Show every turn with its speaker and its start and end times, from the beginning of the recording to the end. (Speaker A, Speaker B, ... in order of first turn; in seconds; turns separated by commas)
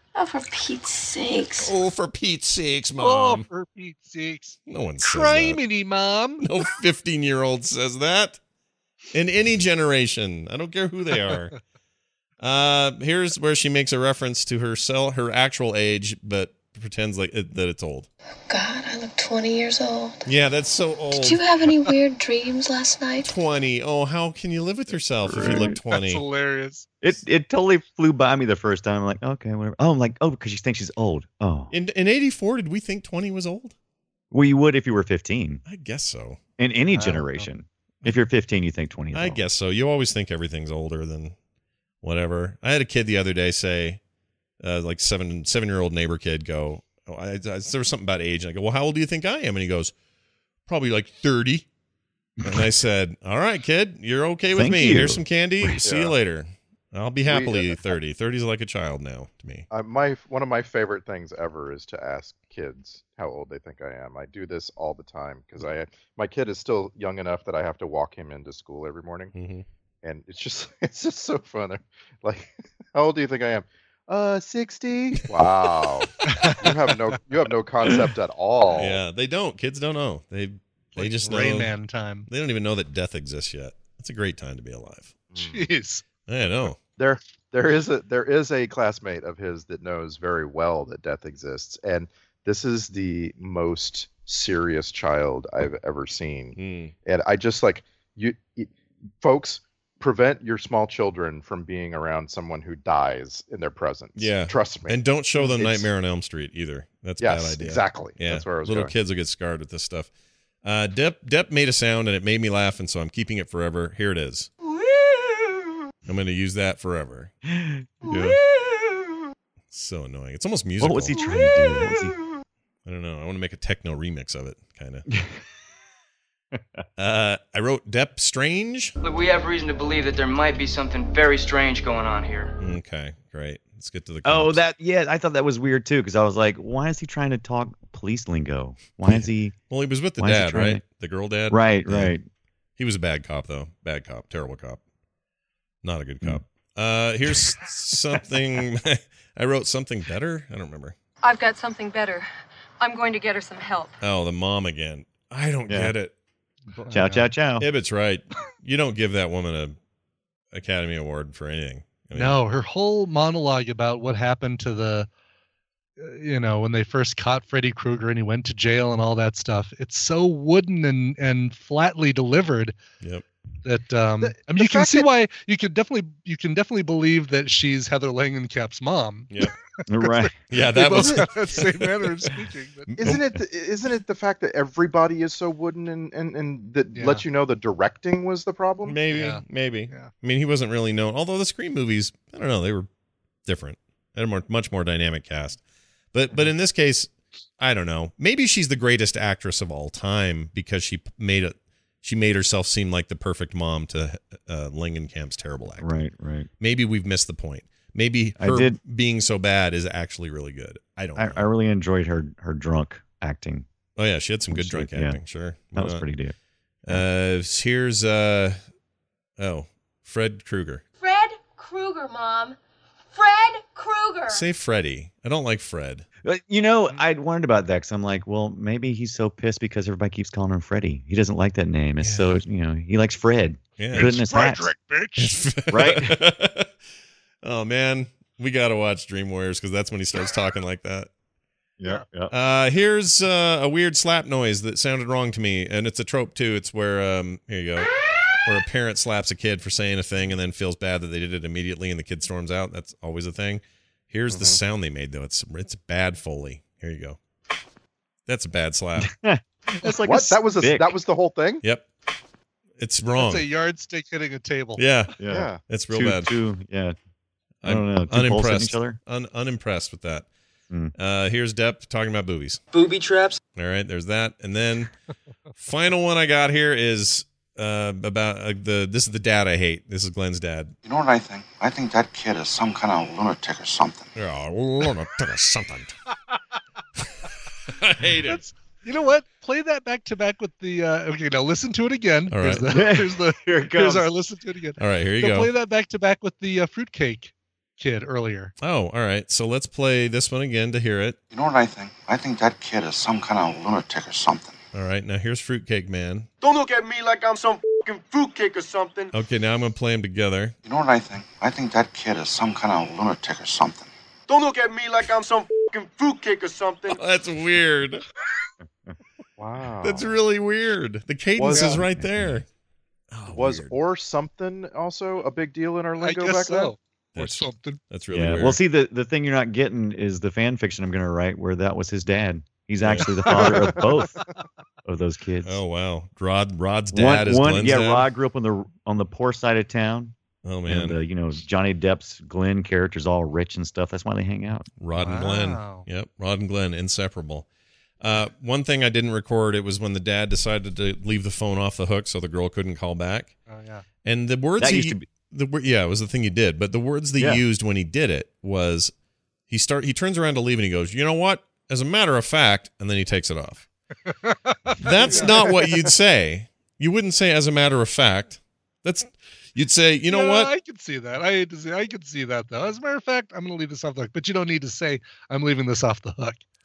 Speaker A: 0.1-1.7, Speaker B: 1.6-3.5, Speaker C: 3.0-6.4, Speaker B: 4.7-5.6, Speaker B: 6.4-8.4, Speaker B: 9.1-11.5, Speaker B: 12.4-18.1, Speaker A: 18.5-20.2, Speaker B: 20.2-21.4, Speaker A: 21.1-23.3, Speaker B: 23.2-26.2, Speaker D: 25.2-25.8, Speaker C: 25.4-26.9, Speaker D: 27.0-31.7, Speaker B: 31.7-33.7, Speaker D: 34.3-35.6, Speaker B: 35.6-36.4, Speaker D: 36.6-39.4, Speaker B: 39.1-41.4, Speaker B: 42.0-44.0, Speaker B: 44.6-49.9, Speaker B: 50.7-51.7, Speaker B: 52.4-59.7, Speaker D: 54.5-55.8, Speaker E: 55.8-56.1, Speaker E: 57.3-57.9, Speaker E: 59.7-69.3, Speaker B: 69.3-69.6, Speaker E: 70.0-79.0, Speaker C: 76.2-76.7, Speaker B: 78.7-81.7, Speaker C: 81.0-82.3, Speaker B: 82.2-85.1, Speaker E: 85.3-85.7, Speaker C: 85.3-86.0, Speaker B: 86.2-86.8, Speaker E: 87.0-105.9, Speaker B: 96.5-96.9, Speaker B: 104.2-110.1, Speaker E: 107.2-108.9, Speaker B: 110.6-114.5, Speaker A: 114.7-115.6, Speaker B: 116.0-117.3, Speaker D: 117.5-118.2, Speaker B: 118.0-118.3, Speaker A: 118.0-118.4, Speaker B: 119.7-121.2, Speaker D: 120.8-122.2, Speaker A: 121.2-121.4, Speaker B: 122.8-125.0, Speaker D: 125.1-125.4, Speaker D: 126.5-126.8, Speaker B: 127.0-128.9, Speaker F: 129.0-132.5, Speaker B: 132.6-134.6, Speaker D: 134.2-139.6, Speaker B: 139.1-142.1, Speaker D: 140.2-140.8, Speaker D: 141.5-142.2, Speaker B: 142.8-144.8, Speaker B: 145.8-150.9, Speaker G: 151.2-152.2, Speaker G: 152.8-154.0, Speaker B: 154.0-156.1, Speaker D: 155.7-155.9, Speaker C: 156.8-157.3, Speaker D: 156.9-157.7, Speaker B: 157.6-159.8, Speaker B: 160.5-162.4, Speaker C: 162.1-165.1, Speaker C: 166.0-172.8, Speaker C: 173.6-179.3, Speaker E: 174.2-175.1, Speaker D: 179.9-180.3, Speaker C: 180.0-183.0, Speaker B: 180.5-181.7, Speaker E: 183.0-189.0, Speaker D: 183.0-183.4, Speaker C: 186.9-187.2, Speaker B: 188.8-192.9, Speaker C: 189.1-190.1, Speaker B: 193.4-195.6, Speaker B: 196.1-206.1, Speaker D: 205.8-206.5, Speaker B: 206.6-211.4, Speaker D: 208.4-208.8, Speaker D: 211.2-213.7, Speaker B: 213.9-216.0, Speaker D: 214.5-215.2, Speaker D: 215.7-216.3, Speaker B: 216.8-218.6, Speaker B: 219.4-220.8, Speaker H: 221.0-222.0, Speaker A: 221.0-222.5, Speaker H: 223.1-224.4, Speaker B: 224.3-226.1, Speaker D: 226.2-234.7, Speaker B: 232.0-232.4, Speaker B: 233.8-234.2, Speaker C: 233.9-235.4, Speaker B: 235.2-236.7, Speaker D: 235.7-236.2, Speaker B: 237.4-241.1, Speaker D: 241.8-242.3, Speaker B: 242.3-247.9, Speaker B: 248.4-257.2, Speaker E: 254.3-254.6, Speaker B: 258.3-259.1, Speaker D: 259.0-260.9, Speaker E: 259.8-261.6, Speaker B: 261.6-261.9, Speaker B: 262.8-263.4, Speaker C: 263.1-264.8, Speaker B: 264.8-265.1, Speaker D: 265.2-266.9, Speaker E: 265.3-265.6, Speaker B: 265.7-266.3, Speaker B: 267.6-270.3, Speaker D: 267.6-269.0, Speaker B: 271.0-272.6, Speaker F: 272.7-273.4, Speaker B: 273.6-274.9, Speaker B: 275.6-280.7, Speaker I: 280.8-284.1, Speaker B: 284.1-285.9, Speaker B: 287.7-288.4, Speaker C: 288.3-298.5, Speaker B: 292.3-292.7, Speaker D: 292.7-294.1, Speaker B: 294.8-295.5, Speaker B: 298.6-301.2, Speaker I: 301.3-304.6, Speaker B: 304.7-306.3, Speaker J: 306.4-309.1, Speaker B: 309.1-310.6, Speaker I: 310.6-313.9, Speaker J: 314.3-317.0, Speaker B: 316.9-318.0, Speaker E: 319.4-320.1, Speaker B: 319.8-322.4, Speaker E: 321.4-321.8, Speaker C: 321.5-321.8, Speaker D: 321.8-322.4, Speaker B: 323.1-323.8, Speaker E: 323.3-326.7, Speaker C: 326.0-327.8, Speaker B: 327.1-328.6, Speaker D: 328.1-334.2, Speaker B: 332.8-333.1, Speaker E: 333.3-333.8, Speaker C: 333.3-334.0, Speaker D: 334.8-335.6, Speaker B: 335.4-338.1, Speaker D: 336.9-340.1, Speaker B: 340.4-341.0, Speaker D: 340.7-344.7, Speaker B: 344.8-347.4, Speaker C: 344.9-345.9, Speaker B: 348.0-353.3, Speaker C: 353.5-353.8, Speaker B: 354.0-358.9, Speaker D: 354.6-355.1, Speaker D: 357.2-357.4, Speaker B: 359.5-363.6, Speaker C: 364.1-364.6, Speaker B: 364.8-370.5, Speaker C: 365.1-365.4, Speaker C: 370.1-376.4